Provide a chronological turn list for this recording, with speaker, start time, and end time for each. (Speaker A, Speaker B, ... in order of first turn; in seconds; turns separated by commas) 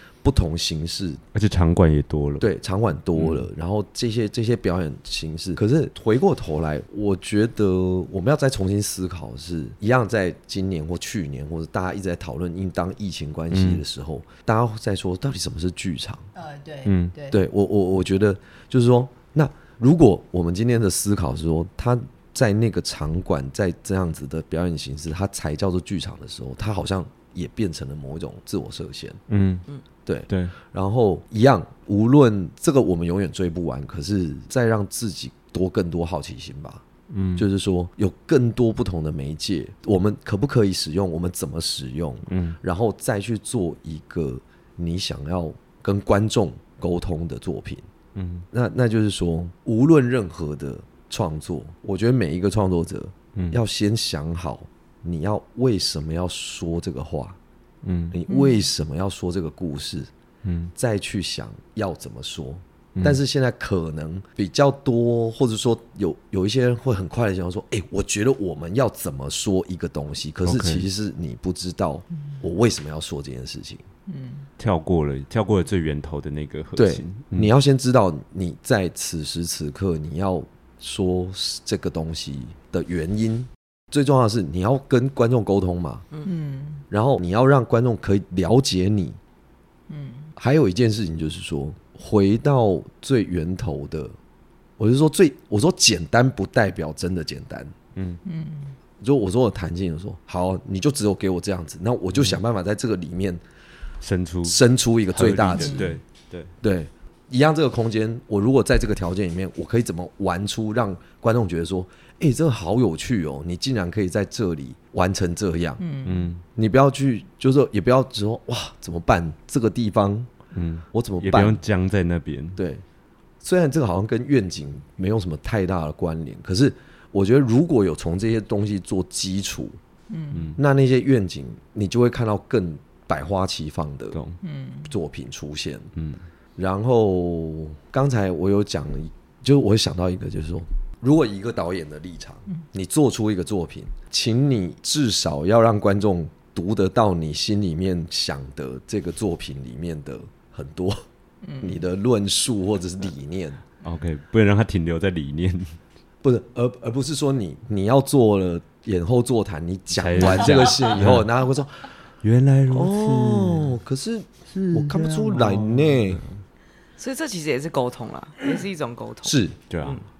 Speaker A: 0.2-1.2, Speaker B: 1.3-2.5, Speaker A: 2.4-16.2, Speaker B: 3.1-3.5, Speaker B: 13.5-13.8, Speaker C: 16.3-17.4, Speaker B: 16.8-17.1, Speaker A: 17.3-29.2, Speaker B: 29.3-29.6, Speaker A: 30.1-36.8, Speaker B: 30.3-30.5, Speaker B: 37.1-37.5, Speaker A: 37.3-47.9, Speaker B: 42.3-42.6, Speaker B: 48.1-48.5, Speaker A: 48.5-57.4, Speaker B: 53.3-53.6, Speaker B: 57.8-58.2, Speaker A: 58.1-60.1, Speaker C: 58.3-58.6, Speaker B: 60.4-60.7, Speaker A: 60.8-73.8, Speaker B: 70.4-70.9, Speaker C: 74.1-74.5, Speaker B: 74.6-77.5, Speaker A: 76.8-86.0, Speaker C: 86.2-86.8, Speaker A: 86.9-89.2, Speaker C: 89.9-90.3, Speaker A: 90.4-94.1, Speaker A: 94.8-97.7, Speaker B: 97.9-98.2, Speaker C: 98.2-98.8, Speaker A: 99.0-103.4, Speaker B: 104.0-106.5, Speaker A: 104.4-105.9, Speaker C: 105.5-106.0, Speaker A: 106.6-115.8, Speaker C: 115.8-116.3, Speaker B: 116.0-116.4, Speaker A: 116.5-120.3, Speaker B: 120.5-122.6, Speaker A: 120.9-121.6, Speaker A: 122.6-122.8, Speaker A: 123.4-129.8, Speaker C: 130.1-130.5, Speaker B: 130.3-130.6, Speaker A: 130.6-134.2, Speaker B: 134.1-134.4, Speaker C: 134.4-134.9, Speaker A: 134.9-135.9, Speaker B: 135.9-136.2, Speaker A: 136.6-151.0, Speaker C: 151.4-151.8, Speaker A: 151.6-153.6, Speaker B: 153.8-155.8, Speaker A: 156.2-161.9, Speaker B: 159.9-161.3, Speaker B: 162.2-163.8, Speaker A: 162.7-166.2, Speaker B: 164.5-166.4, Speaker D: 167.0-170.0, Speaker A: 169.2-169.6, Speaker B: 169.7-170.0